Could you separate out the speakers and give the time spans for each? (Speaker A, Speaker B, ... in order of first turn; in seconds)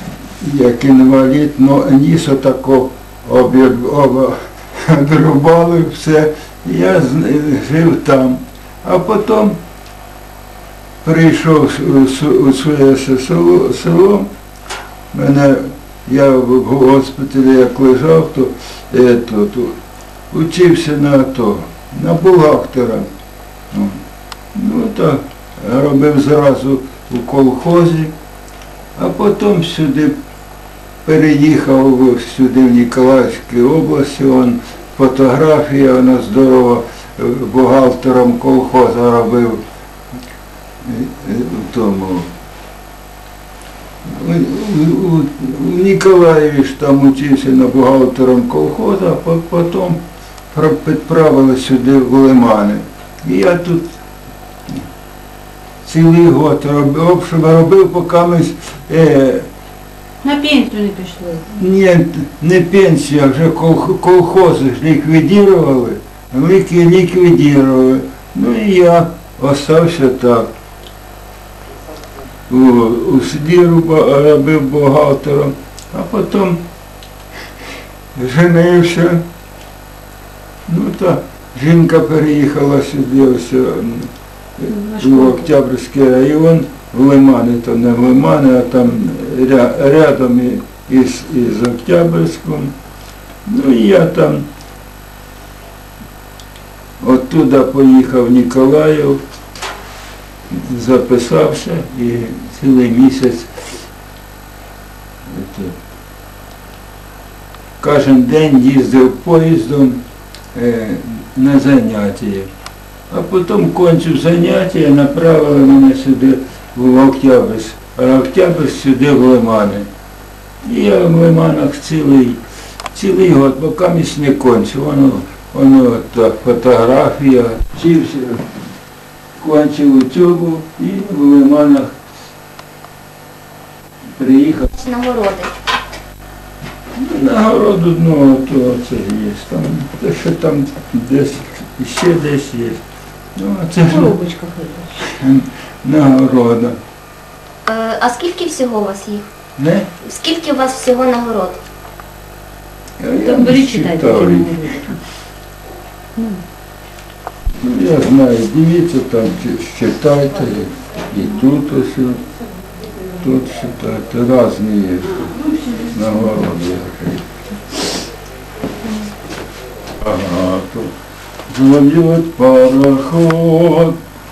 Speaker A: 0.4-9.6, 11.0-14.3, 15.1-19.8, 20.3-23.1, 23.7-24.0, 24.5-28.1, 28.9-30.1, 31.0-39.6, 40.8-42.3, 44.0-53.9, 55.8-59.5, 61.5-70.5, 72.5-76.6, 78.1-79.2, 80.7-92.7, 93.5-94.5, 97.0-99.2, 100.5-103.5, 105.3-105.7, 107.8-110.0, 110.5-112.5, 113.1-119.9, 120.6-122.4, 122.9-128.4, 129.4-131.9, 134.1-134.7, 136.9-142.8, 143.3-144.2, 145.0-146.8, 149.6-149.9, 153.0-154.8, 157.6-162.2, 163.2-167.2, 170.0-170.9, 171.5-174.0
Speaker B: 60.2-61.4, 84.7-85.4, 143.8-145.1, 153.2-154.8, 156.2-156.4
Speaker C: 134.8-135.5, 147.7-149.2, 150.0-151.6